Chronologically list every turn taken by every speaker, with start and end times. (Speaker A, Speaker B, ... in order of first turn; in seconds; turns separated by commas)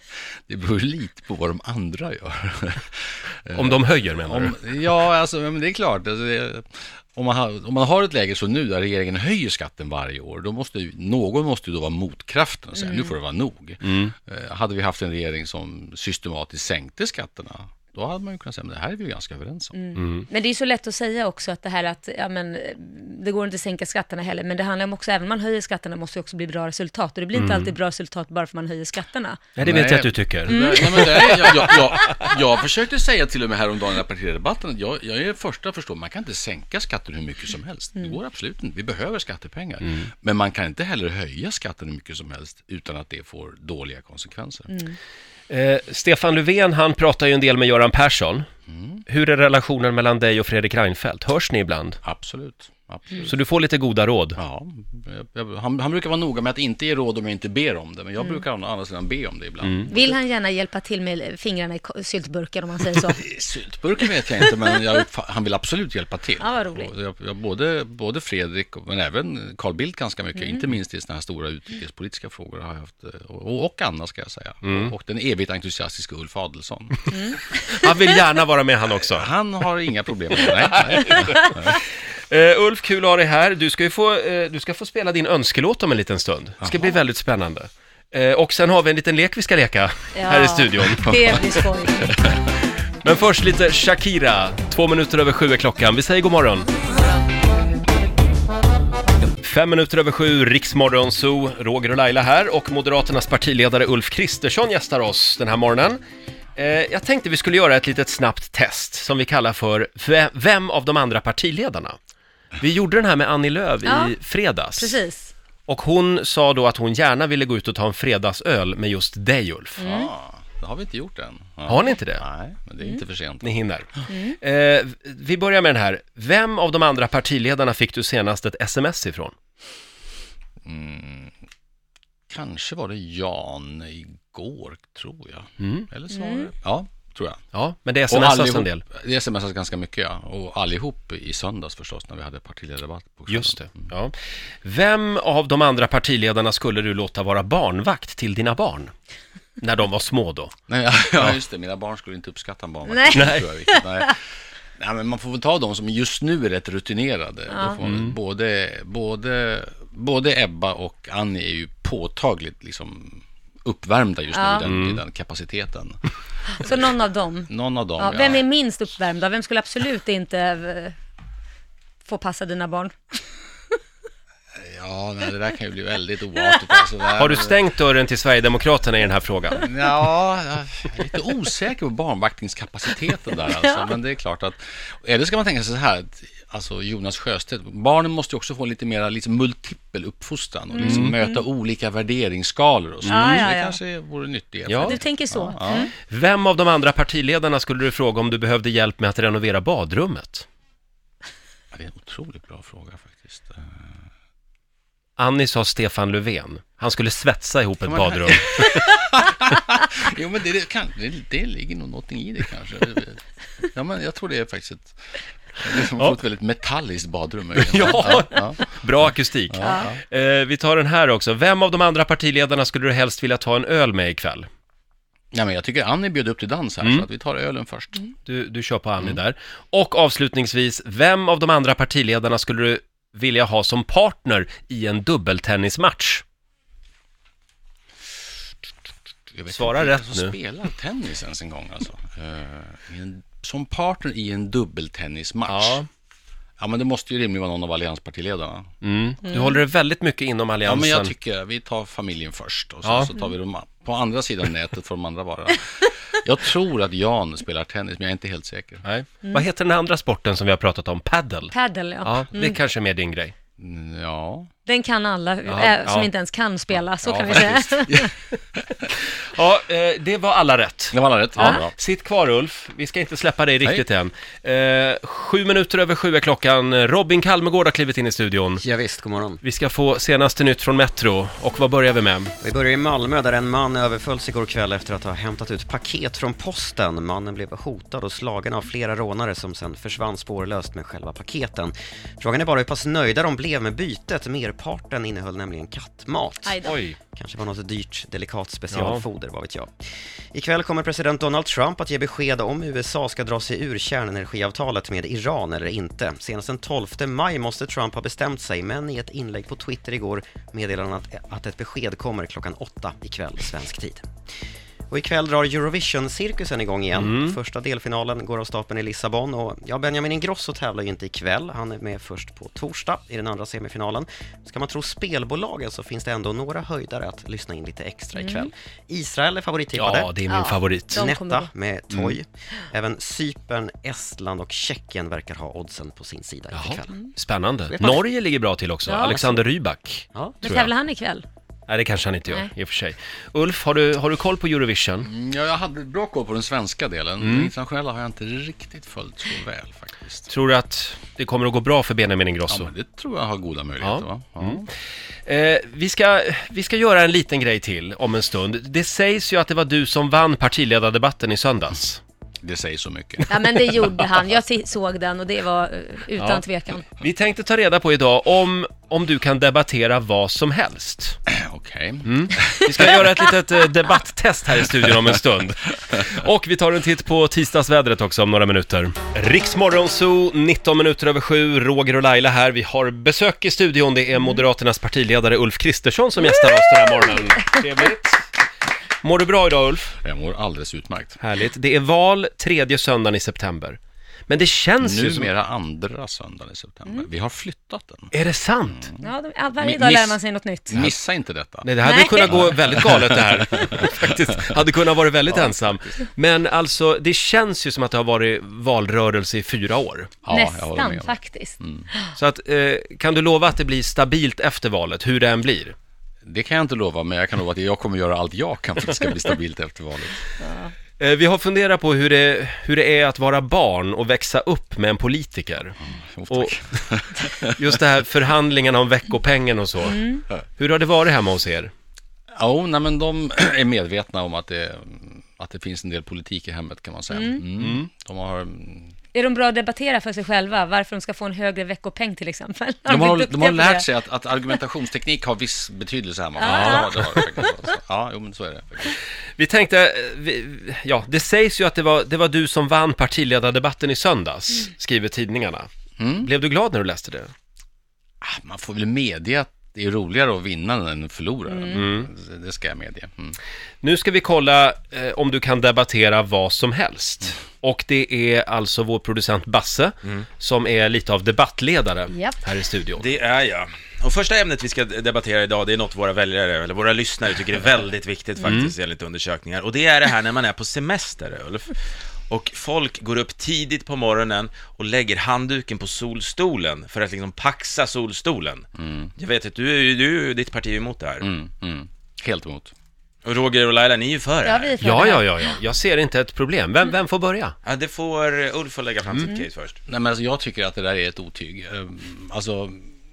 Speaker A: 0.5-19.8, Speaker B: 3.5-4.6, Speaker C: 12.8-13.2, Speaker B: 13.8-14.1, Speaker C: 19.8-29.4, Speaker B: 20.0-20.3, Speaker B: 27.4-27.7, Speaker B: 29.6-31.7, Speaker A: 29.6-44.8, Speaker C: 30.5-31.8, Speaker C: 44.7-45.0, Speaker B: 45.5-48.5, Speaker A: 48.7-49.0, Speaker B: 49.1-52.0, Speaker A: 52.0-53.3, Speaker B: 53.2-54.4, Speaker A: 54.4-60.2, Speaker B: 59.6-59.9, Speaker C: 59.9-63.2, Speaker A: 63.0-77.1, Speaker C: 66.4-66.9, Speaker B: 74.7-74.9, Speaker C: 77.1-77.9, Speaker B: 77.7-79.3, Speaker A: 79.0-81.6, Speaker B: 80.9-91.2, Speaker C: 90.2-92.1, Speaker B: 93.0-96.7, Speaker B: 99.4-106.0, Speaker B: 106.6-112.0, Speaker B: 112.6-115.0, Speaker C: 113.9-114.2, Speaker C: 114.8-115.3, Speaker B: 115.7-119.9, Speaker C: 119.8-120.1, Speaker A: 119.8-123.6, Speaker B: 121.7-122.2, Speaker B: 123.4-123.9, Speaker C: 124.1-124.4, Speaker B: 124.4-129.3, Speaker A: 130.7-131.3, Speaker A: 132.3-137.4, Speaker B: 135.6-135.9, Speaker C: 136.1-136.5, Speaker B: 137.5-138.8, Speaker A: 138.1-143.9, Speaker B: 143.3-148.9, Speaker B: 149.6-150.5, Speaker A: 150.7-154.2, Speaker C: 152.9-154.1, Speaker B: 153.1-153.5, Speaker A: 154.8-166.1, Speaker C: 157.5-157.8, Speaker B: 157.8-158.1, Speaker C: 164.3-164.7, Speaker B: 164.6-165.0, Speaker C: 166.6-171.0, Speaker A: 167.5-168.4, Speaker C: 172.1-173.2, Speaker A: 174.6-177.6, Speaker B: 177.2-179.7, Speaker A: 179.6-195.9, Speaker C: 190.8-191.4, Speaker B: 190.8-191.1, Speaker C: 193.1-193.8, Speaker B: 193.1-193.4, Speaker B: 194.7-195.0, Speaker C: 194.8-195.9, Speaker B: 196.1-200.5, Speaker A: 201.7-203.8, Speaker B: 205.2-208.8, Speaker A: 207.8-218.6, Speaker B: 217.6-224.5, Speaker A: 219.5-220.0, Speaker A: 225.3-228.1, Speaker B: 228.2-236.2, Speaker A: 239.3-245.8, Speaker B: 239.5-240.3, Speaker B: 245.5-245.9, Speaker A: 246.6-248.7, Speaker B: 248.8-251.1, Speaker C: 249.3-249.6, Speaker A: 250.6-258.9, Speaker B: 252.8-253.1, Speaker B: 258.8-261.5, Speaker C: 261.5-262.6, Speaker B: 262.0-263.3, Speaker A: 263.6-264.5, Speaker C: 264.7-268.1, Speaker B: 265.5-266.1, Speaker A: 267.1-268.9, Speaker B: 269.1-278.6, Speaker A: 270.9-271.7, Speaker D: 278.6-279.4, Speaker B: 279.4-282.3, Speaker D: 282.4-299.7, Speaker C: 296.4-296.8, Speaker B: 296.6-297.0, Speaker B: 298.7-299.0, Speaker D: 300.3-314.0, Speaker D: 314.9-330.1, Speaker B: 317.0-317.4, Speaker C: 328.1-328.5, Speaker B: 329.7-331.1, Speaker C: 330.3-331.5, Speaker D: 330.9-337.1, Speaker B: 336.5-340.7, Speaker D: 337.7-338.0, Speaker C: 338.9-339.4, Speaker C: 340.4-341.2, Speaker B: 341.7-345.1, Speaker A: 345.0-350.3, Speaker B: 347.2-347.5, Speaker B: 350.3-352.7, Speaker A: 352.5-354.7, Speaker B: 353.8-354.6, Speaker B: 355.2-362.0, Speaker A: 362.4-363.4, Speaker C: 363.3-366.9, Speaker B: 366.2-371.2, Speaker A: 371.3-373.0, Speaker B: 372.1-388.3, Speaker B: 389.0-389.9, Speaker A: 390.0-391.2, Speaker B: 391.2-393.8, Speaker B: 394.3-395.3, Speaker A: 394.8-398.1, Speaker B: 398.1-398.9, Speaker A: 398.8-401.7, Speaker C: 399.0-400.9, Speaker B: 401.6-410.1, Speaker C: 401.8-402.6, Speaker A: 402.3-404.1, Speaker A: 405.3-406.0, Speaker A: 410.2-411.9, Speaker C: 410.3-412.1, Speaker B: 412.1-415.8, Speaker A: 416.2-420.2, Speaker C: 420.4-420.7, Speaker B: 421.0-425.8, Speaker A: 425.9-427.8, Speaker B: 427.5-430.0, Speaker C: 429.9-430.2, Speaker B: 430.6-431.7, Speaker A: 432.4-438.9, Speaker C: 437.1-437.4, Speaker B: 437.6-437.9, Speaker C: 439.1-443.9, Speaker A: 442.9-448.9, Speaker C: 446.4-447.1, Speaker B: 446.5-446.8, Speaker B: 449.4-457.3, Speaker A: 456.0-456.3, Speaker A: 458.2-463.4, Speaker B: 461.7-462.1, Speaker B: 463.8-473.1, Speaker E: 473.0-481.8, Speaker B: 478.4-478.7, Speaker E: 482.3-488.6, Speaker A: 488.8-489.1, Speaker E: 489.2-491.2, Speaker A: 491.2-492.7, Speaker E: 493.2-494.8, Speaker C: 494.4-495.6, Speaker B: 494.8-497.5, Speaker E: 497.6-499.8, Speaker A: 499.9-502.9